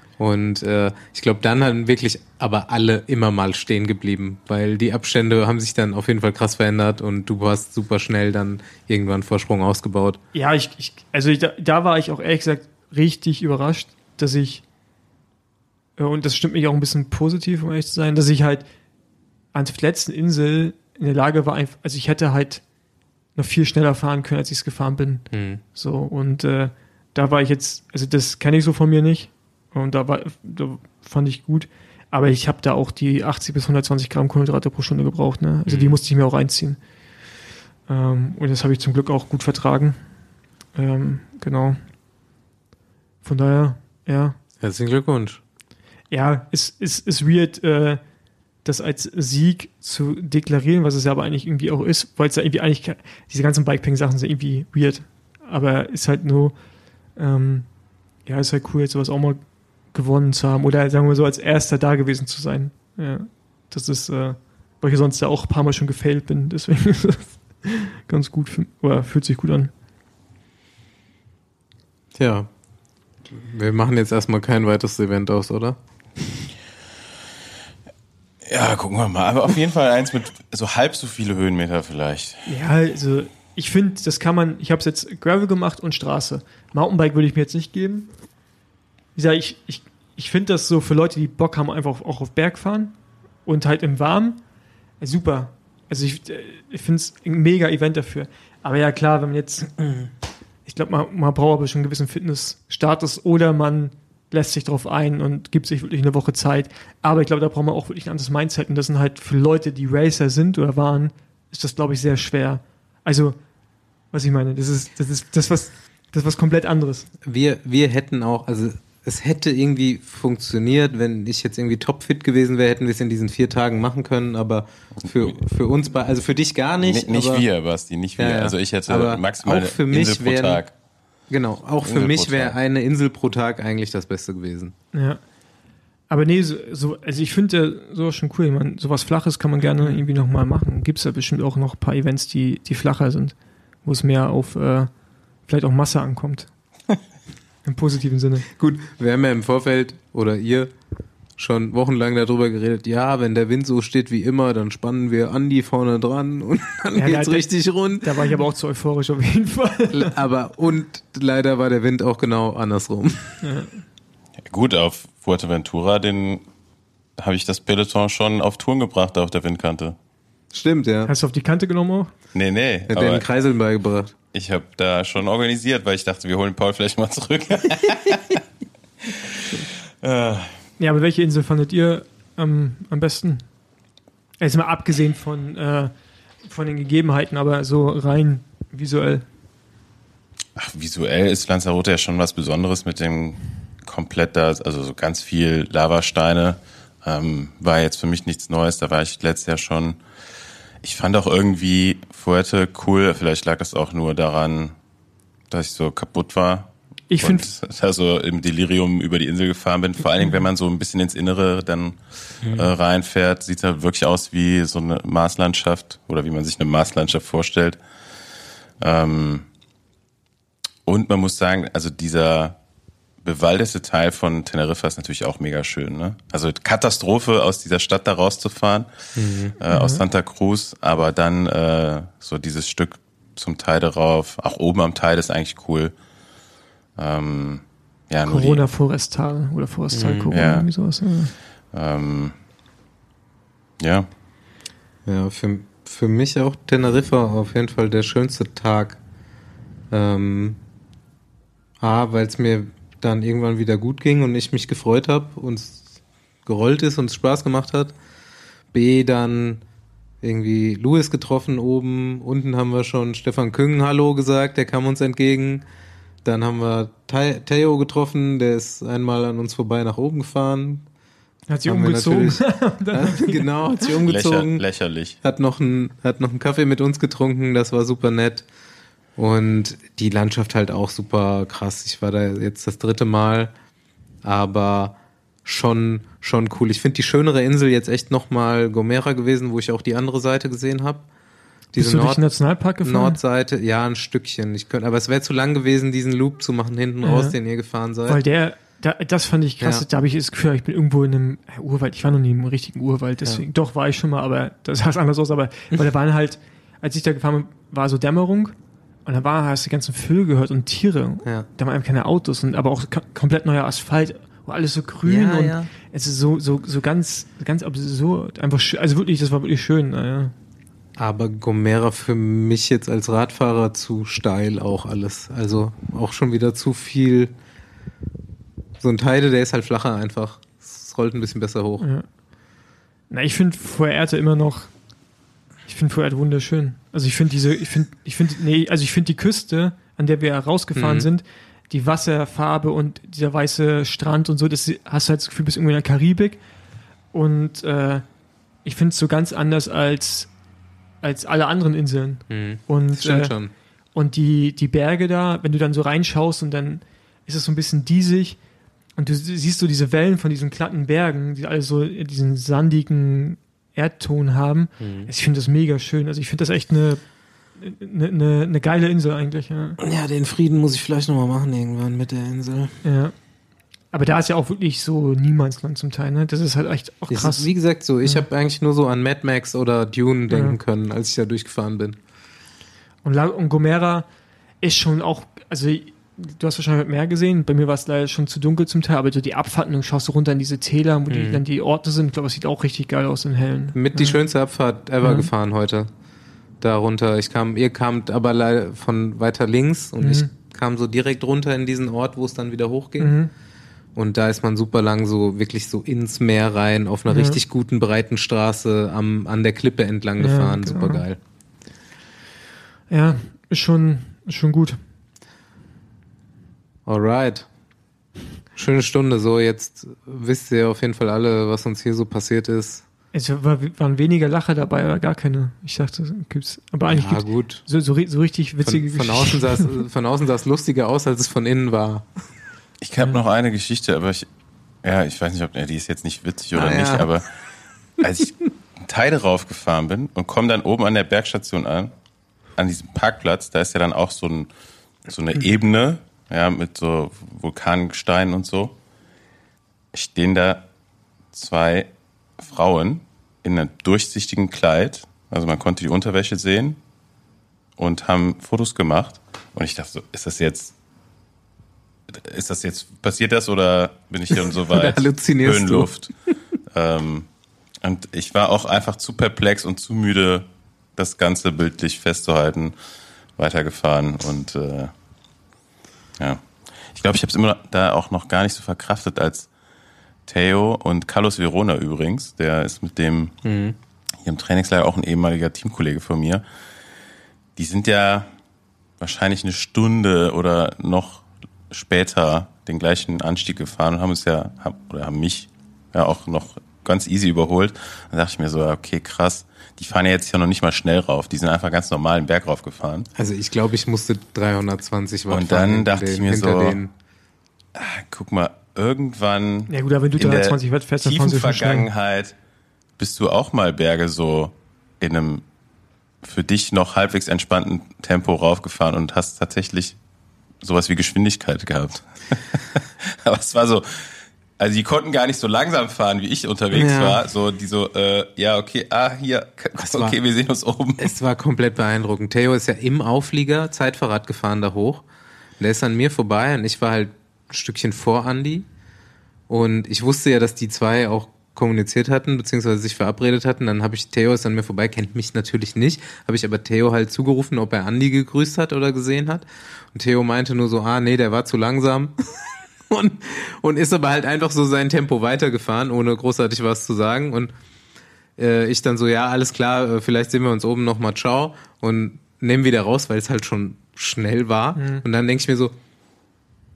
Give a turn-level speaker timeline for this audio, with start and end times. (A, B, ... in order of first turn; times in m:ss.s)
0:00.2-0:10.2 A
0:10.3-0:14.6 B
0:16.0-0:18.7 B
0:19.5-0:22.6 B
0:23.4-0:36.8 B
0:25.3-0:25.6 A
0:35.7-0:36.0 A
0:37.9-0:40.0 B
0:40.7-0:41.8 B
0:43.2-0:44.4 B
0:44.6-0:45.4 A
0:46.1-0:48.0 B
0:48.6-0:56.6 B
0:57.2-0:57.7 B
0:58.3-1:09.7 B
1:12.2-1:12.5 A
1:13.3-1:15.8 A
1:18.4-1:22.5 C
1:22.5-1:28.1 B
1:29.2-1:32.9 B
1:33.4-1:34.4 B
1:35.0-1:39.8 B
1:40.6-1:53.4 B
1:54.1-1:57.1 B
1:57.2-2:07.4 A
2:06.8-2:10.7 C
2:08.2-2:10.6 A
2:11.3-2:14.8 A
2:11.8-2:12.6 C
2:14.9-2:15.2 B
2:16.1-2:23.3 B
2:23.8-2:24.9 B
2:25.5-2:26.5 B
2:27.6-2:28.5 B
2:28.6-2:30.7 A
2:31.4-2:38.3 A
2:37.0-2:40.1 B
2:39.9-2:43.4 A
2:43.4-2:43.8 B
2:44.4-2:46.4 C
2:47.2-2:50.0 C
2:50.5-2:51.1 A
2:51.1-2:52.1 B
2:52.3-2:53.3 C
2:52.9-2:54.1 A
2:54.3-2:58.4 C
2:59.1-3:00.6 C
3:00.8-3:03.5 B
3:04.4-3:05.9 B
3:06.5-3:09.3 B
3:10.6-3:20.0 C
3:20.8-3:24.8 C
3:25.5-3:37.8 C
3:27.1-3:27.5 B
3:32.4-3:32.7 A
3:38.8-3:39.5 C
3:40.9-3:42.6 C
3:43.2-3:48.9 C
3:49.2-3:49.6 A
3:49.6-3:55.9 C
3:49.7-3:50.0 B
3:57.0-3:58.6 C
3:58.2-4:01.3 B
3:59.9-4:00.3 A
4:00.3-4:00.7 C
4:01.7-4:02.4 C
4:03.8-4:04.1 C
4:05.1-4:09.0 A
4:09.9-4:10.6 A
4:11.8-4:15.9 A
4:16.5-4:18.0 A
4:18.7-4:19.6 A
4:20.2-4:25.6 A
4:26.2-4:30.9 A
4:31.5-4:33.9 B
4:31.7-4:34.6 A
4:34.1-4:35.2 C
4:35.2-4:38.5 A
4:39.2-4:43.5 A
4:44.2-4:51.0 A
4:51.7-4:52.2 A
4:51.8-4:53.2 B
4:52.8-4:58.2 A
4:57.0-4:57.4 B
4:58.1-5:08.5 B
5:09.1-5:20.3 B
5:15.0-5:15.7 A
5:21.0-5:27.3 A
5:28.8-5:31.9 A
5:31.8-5:32.1 B
5:33.1-5:34.7 B
5:35.7-5:46.4 B
5:40.8-5:41.1 A
5:47.1-5:48.0 B
5:48.6-5:50.3 B
5:51.0-5:53.4 B
5:52.3-5:53.5 A
5:54.0-5:58.4 B
5:59.0-6:07.0 B
6:04.8-6:05.1 A
6:07.6-6:09.8 B
6:09.8-6:12.8 A
6:12.8-6:13.1 B
6:13.9-6:17.5 B
6:17.1-6:22.0 A
6:20.3-6:20.6 B
6:23.0-6:24.1 B
6:24.6-6:34.2 B
6:31.1-6:31.4 A
6:33.7-6:35.9 A
6:35.0-6:35.3 B
6:36.6-6:43.2 A
6:40.0-6:40.3 B
6:43.0-6:43.3 B
6:44.0-6:51.2 A
6:47.1-6:47.4 B
6:50.2-6:51.0 B
6:52.9-6:54.8 B
6:56.9-6:57.5 A
6:58.6-7:02.8 A
7:03.1-7:09.7 B
7:06.9-7:07.6 A
7:08.6-7:12.1 A
7:12.8-7:14.3 C
7:14.8-7:17.3 C
7:16.5-7:17.1 A
7:18.0-7:21.9 C
7:22.6-7:24.5 C
7:25.1-7:28.8 C
7:29.9-7:30.6 C
7:31.3-7:36.8 C
7:37.8-7:40.7 C
7:42.1-7:46.1 C
7:44.3-7:45.9 A
7:46.7-7:47.3 C
7:47.8-7:50.5 C
7:51.0-7:52.8 C
7:53.4-7:54.9 C
7:56.2-7:59.5 C
8:00.3-8:03.3 C
8:03.4-8:03.8 A
8:04.2-8:06.4 C
8:07.6-8:08.3 C
8:09.0-8:23.1 C
8:23.2-8:26.9 A
8:25.3-8:26.8 C
8:27.8-8:32.4 C
8:29.7-8:31.9 B
8:33.0-8:35.4 C
8:36.2-8:40.0 C
8:40.6-8:51.1 C
8:46.7-8:47.2 A
8:49.8-8:50.2 A
8:51.0-8:55.0 A
8:55.6-8:58.7 A
8:59.5-9:17.5 A
9:18.4-9:25.7 A
9:24.8-9:25.0 B